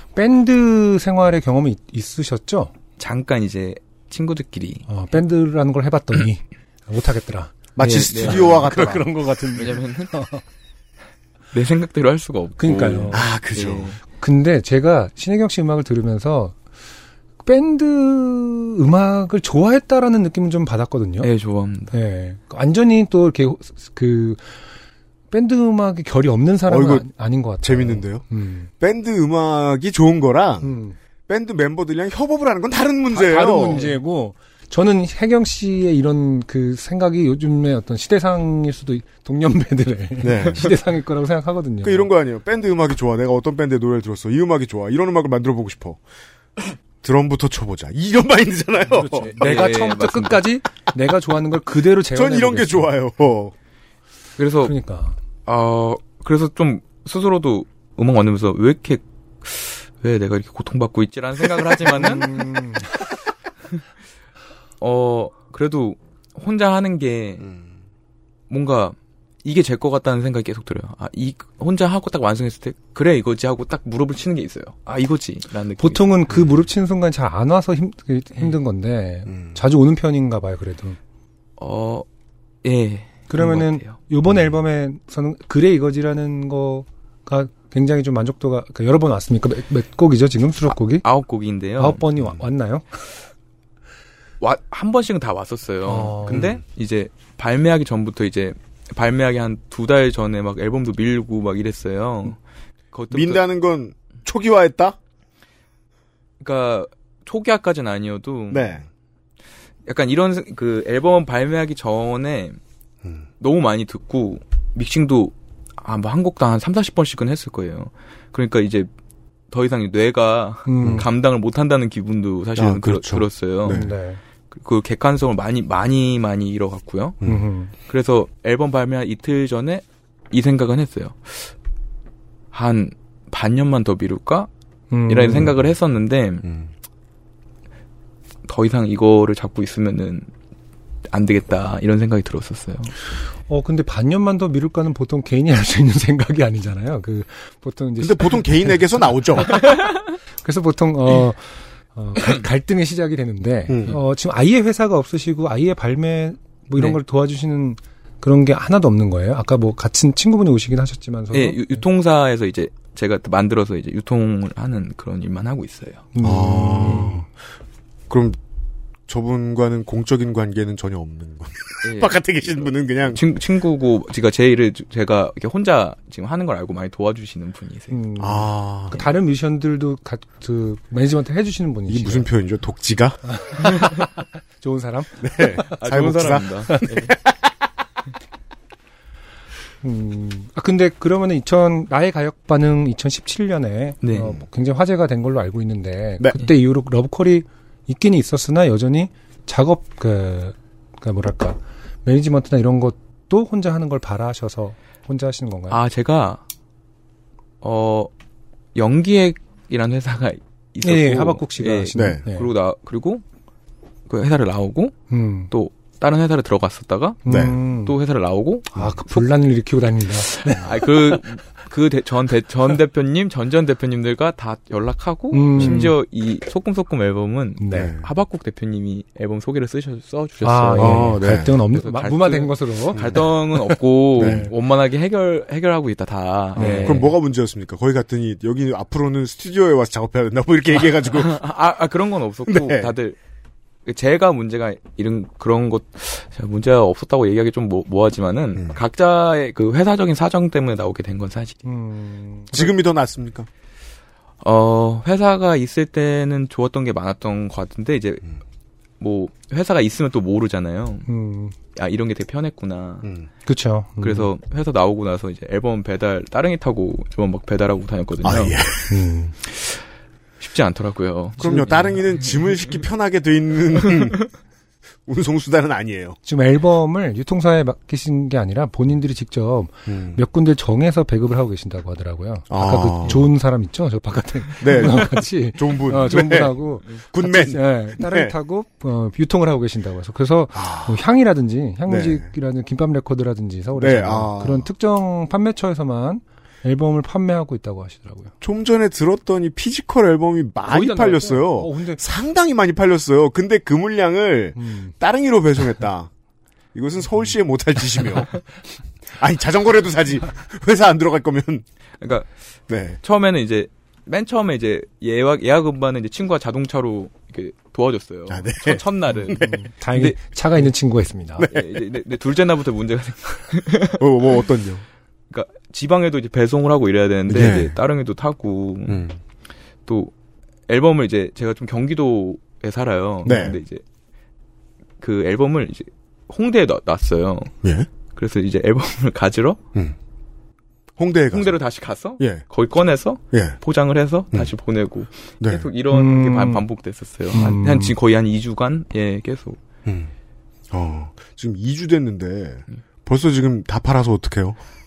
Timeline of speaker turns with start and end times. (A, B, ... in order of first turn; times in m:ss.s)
0:00.2-0:02.7 A
0:03.0-0:04.8 B
0:04.9-0:07.5 A
0:07.8-0:09.0 C
0:07.8-0:09.0 B
0:08.2-0:10.4 A
0:09.5-0:10.1 B
0:11.5-0:14.0 B
0:12.6-0:13.3 A
0:13.1-0:14.0 C
0:14.1-0:16.6 A
0:17.4-0:21.3 A
0:21.2-0:21.9 B
0:21.9-0:24.4 A
0:25.3-0:28.7 A
0:26.7-0:27.1 C
0:27.6-0:28.3 C
0:28.8-0:30.7 C
0:30.6-0:31.0 A
0:31.3-0:33.8 C
0:33.1-0:42.1 A
0:40.2-0:40.7 C
0:41.8-0:46.0 C
0:47.0-0:49.6 C
0:48.9-0:52.9 A
0:49.2-0:50.4 B
0:52.1-0:53.5 C
0:54.4-0:54.7 B
0:54.6-0:55.2 A
0:55.4-1:02.4 B
1:01.9-1:03.0 A
1:04.8-1:07.4 B
1:07.4-1:07.7 C
1:08.5-1:16.2 B
1:15.8-1:21.0 A
1:19.3-1:19.5 C
1:21.6-1:22.0 B
1:22.6-1:24.0 B
1:23.3-1:31.0 A
1:30.9-1:32.0 B
1:31.8-1:33.0 A
1:34.4-1:42.4 B
1:35.8-1:36.5 A
1:36.3-1:36.6 C
1:42.9-1:43.4 B
1:43.1-1:45.0 C
1:46.4-1:48.7 B
1:48.5-1:48.8 C
1:49.8-1:52.6 B
1:53.4-1:58.9 B
1:59.5-2:03.8 B
2:00.6-2:01.1 A
2:02.6-2:03.9 C
2:03.7-2:04.2 A
2:04.5-2:07.2 B
2:07.2-2:07.7 A
2:07.9-2:11.5 B
2:12.5-2:14.5 B
2:14.9-2:15.5 A
2:15.1-2:16.4 B
2:16.4-2:16.7 C
2:18.4-2:20.3 B
2:21.1-2:22.9 B
2:23.5-2:29.8 A
2:28.0-2:29.5 C
2:30.4-2:41.8 A
2:33.7-2:34.0 C
2:41.3-2:46.1 B
2:46.1-2:47.2 A
2:46.2-2:47.3 C
2:48.1-2:48.4 C
2:49.1-2:53.2 C
2:51.8-2:58.0 B
2:57.9-3:02.3 A
2:58.2-2:59.0 C
3:01.9-3:03.2 C
3:03.3-3:05.7 A
3:05.2-3:07.3 C
3:05.7-3:07.1 B
3:09.8-3:25.8 A
3:14.0-3:14.4 B
3:25.7-3:26.4 B
3:27.6-3:28.1 B
3:28.7-3:33.2 B
3:30.8-3:32.5 A
3:31.9-3:32.2 C
3:34.1-3:35.0 B
3:35.1-3:35.5 A
3:35.5-3:39.3 B
3:37.2-3:37.9 A
3:37.3-3:37.6 C
3:38.7-3:41.2 A
3:40.3-3:57.1 B
3:45.3-3:45.9 A
3:45.6-3:45.8 C
3:47.6-3:47.9 A
3:47.7-3:48.1 C
3:50.4-3:53.1 A
3:50.8-3:51.5 C
3:52.9-3:54.5 C
3:56.6-3:57.1 A
3:56.6-4:01.4 C
4:01.0-4:03.2 B
4:02.4-4:02.9 C
4:03.8-4:11.6 B
4:11.6-4:12.7 A
4:12.5-4:13.5 C
4:14.4-4:18.2 B
4:19.0-4:21.1 B
4:21.1-4:21.5 A
4:21.7-4:23.1 B
4:23.0-4:23.3 C
4:23.4-4:24.3 A
4:24.0-4:28.6 B
4:28.2-4:29.0 C
4:28.9-4:29.3 A
4:29.4-4:29.8 B
4:30.4-4:32.8 B
4:31.4-4:34.2 C
4:33.8-4:34.2 B
4:35.0-4:36.2 C
4:36.2-4:58.3 A
4:39.9-4:40.2 C
4:42.5-4:43.2 C
4:44.6-4:48.3 C
4:50.5-4:51.0 C
4:51.9-4:52.2 C
4:53.8-4:54.7 C
4:58.4-5:06.1 C
5:00.7-5:02.0 A
5:04.6-5:04.9 A
5:06.7-5:08.4 C
5:09.2-5:11.6 C
5:12.0-5:12.3 B
5:12.7-5:13.0 C
5:13.0-5:20.2 B
5:18.3-5:19.6 C
5:19.1-5:21.5 A
5:21.4-5:21.8 C
5:21.5-5:24.0 B
5:24.0-5:24.8 C
5:25.3-5:29.0 B
5:27.3-5:27.8 C
5:28.9-5:29.2 C
5:29.9-5:30.1 B
5:30.7-5:33.8 B
5:33.2-5:33.6 C
5:35.0-5:37.5 B
5:38.1-5:39.6 B
5:41.0-5:41.6 C
5:41.3-5:49.6 B
5:42.2-5:42.5 C
5:43.3-5:43.6 C
5:45.4-5:45.7 C
5:45.9-5:46.6 A
5:47.3-5:47.9 A
5:49.8-5:50.1 C
5:50.7-5:54.6 C